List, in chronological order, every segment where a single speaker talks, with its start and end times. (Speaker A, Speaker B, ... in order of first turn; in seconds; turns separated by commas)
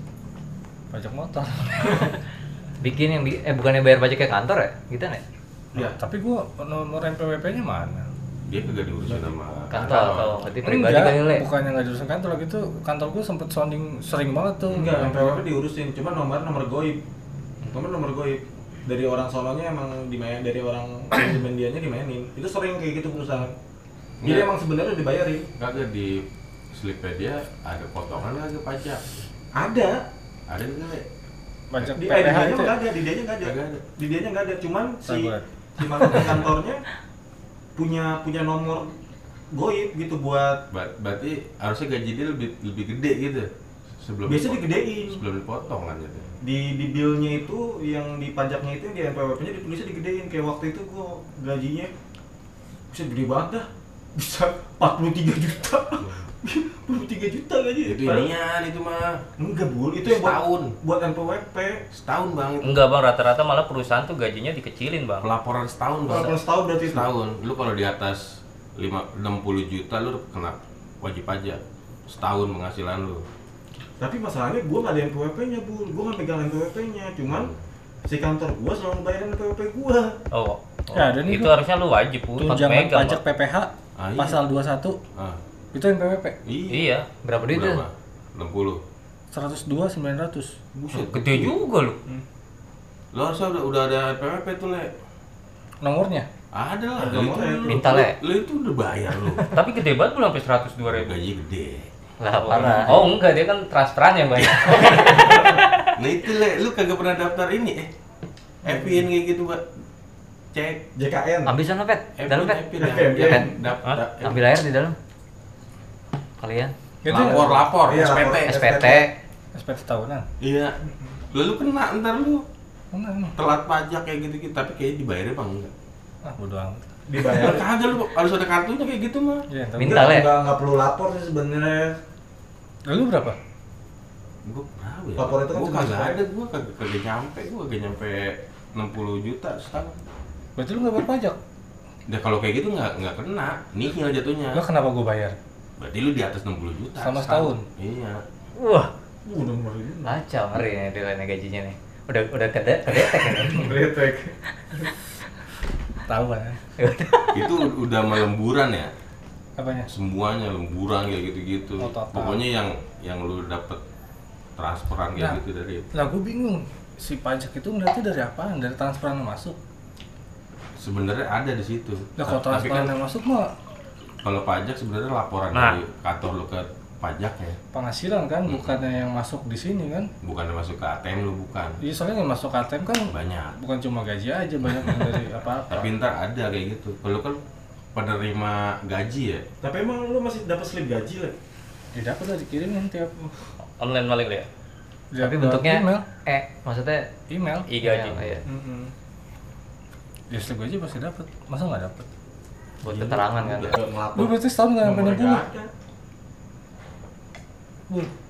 Speaker A: 0.9-2.1, Speaker B: 2.8-5.2, Speaker A: 5.8-8.1, Speaker C: 8.4-10.5, Speaker B: 9.7-11.1, Speaker A: 10.6-15.4, Speaker D: 10.9-11.4, Speaker C: 14.7-15.1, Speaker E: 14.8-17.0, Speaker E: 17.7-23.5, Speaker C: 24.2-24.5, Speaker E: 24.2-25.5, Speaker C: 25.6-29.0, Speaker E: 29.5-30.0, Speaker C: 30.5-31.0, Speaker A: 31.7-32.8, Speaker E: 31.8-36.8, Speaker C: 33.4-33.8, Speaker A: 35.0-35.4, Speaker E: 37.8-38.9, Speaker E: 39.5-40.6, Speaker C: 40.7-43.5, Speaker C: 44.0-46.3, Speaker E: 44.2-45.2, Speaker E: 46.4-51.9, Speaker E: 52.9-58.3, Speaker C: 57.8-59.1, Speaker E: 59.4-61.8, Speaker C: 60.0-60.8, Speaker C: 61.9-62.8, Speaker D: 62.6-65.3, Speaker C: 65.2-68.2, Speaker E: 66.0-67.1, Speaker C: 68.8-73.2, Speaker E: 74.0-77.5, Speaker C: 77.3-77.6, Speaker E: 78.0-80.2, Speaker D: 80.3-83.2, Speaker A: 80.9-81.6, Speaker A: 82.3-85.0, Speaker C: 84.0-84.4, Speaker A: 85.7-86.4, Speaker C: 86.4-86.9, Speaker D: 86.7-87.1, Speaker B: 87.2-87.8, Speaker C: 87.5-88.8, Speaker A: 89.3-90.5, Speaker C: 90.7-91.6, Speaker D: 91.1-92.0, Speaker C: 93.1-94.9, Speaker A: 95.8-96.3, Speaker C: 96.5-99.5, Speaker E: 97.0-97.9, Speaker B: 97.7-98.2, Speaker D: 99.5-101.2, Speaker C: 100.9-101.9, Speaker B: 102.2-103.1, Speaker D: 102.4-105.7, Speaker C: 102.5-103.2, Speaker C: 104.4-105.2, Speaker E: 105.0-105.4, Speaker C: 106.0-107.9, Speaker C: 108.6-109.6, Speaker E: 108.6-109.1, Speaker C: 110.5-110.8, Speaker E: 110.9-111.5, Speaker B: 111.5-113.5, Speaker C: 112.2-114.4, Speaker E: 112.8-113.6, Speaker B: 114.2-115.0, Speaker B: 116.4-116.7, Speaker A: 117.0-117.7, Speaker C: 117.1-118.6, Speaker E: 117.3-119.1, Speaker B: 117.9-119.1, Speaker A: 119.5-120.3, Speaker C: 120.4-120.7, Speaker C: 121.3-122.4, Speaker A: 122.9-123.4, Speaker C: 123.4-125.7, Speaker A: 126.2-126.8, Speaker E: 127.1-127.7, Speaker C: 127.3-129.4, Speaker A: 129.5-130.2, Speaker B: 129.8-130.3, Speaker E: 129.8-131.9, Speaker A: 132.8-133.4, Speaker C: 134.4-140.0, Speaker E: 135.2-136.2, Speaker A: 140.6-141.4, Speaker C: 142.1-144.6, Speaker A: 144.5-145.4, Speaker C: 145.8-148.2, Speaker A: 147.0-147.7, Speaker B: 148.6-148.9, Speaker E: 149.2-150.2, Speaker B: 150.0-153.7, Speaker E: 153.4-154.8, Speaker A: 156.1-156.6, Speaker B: 156.8-157.6, Speaker C: 157.3-158.9, Speaker A: 159.6-159.9, Speaker C: 159.9-163.8, Speaker A: 161.8-162.4, Speaker C: 164.6-165.8, Speaker A: 165.1-165.4, Speaker A: 165.9-169.6, Speaker C: 170.8-172.9, Speaker A: 172.2-173.5, Speaker C: 174.2-177.6, Speaker D: 175.5-175.8, Speaker A: 177.7-180.1, Speaker C: 178.5-178.7, Speaker C: 180.2-181.8, Speaker A: 181.8-185.9, Speaker C: 183.1-183.6, Speaker C: 185.7-187.4, Speaker C: 187.9-189.4, Speaker E: 189.6-191.3, Speaker A: 191.9-193.3, Speaker D: 193.6-194.5, Speaker A: 195.1-196.1, Speaker B: 195.2-197.1, Speaker A: 197.3-197.7, Speaker D: 197.7-198.4, Speaker B: 197.8-198.4, Speaker E: 198.5-198.9, Speaker A: 200.3-202.1, Speaker B: 202.8-203.8, Speaker C: 202.8-203.8, Speaker E: 203.7-205.7, Speaker A: 204.1-205.4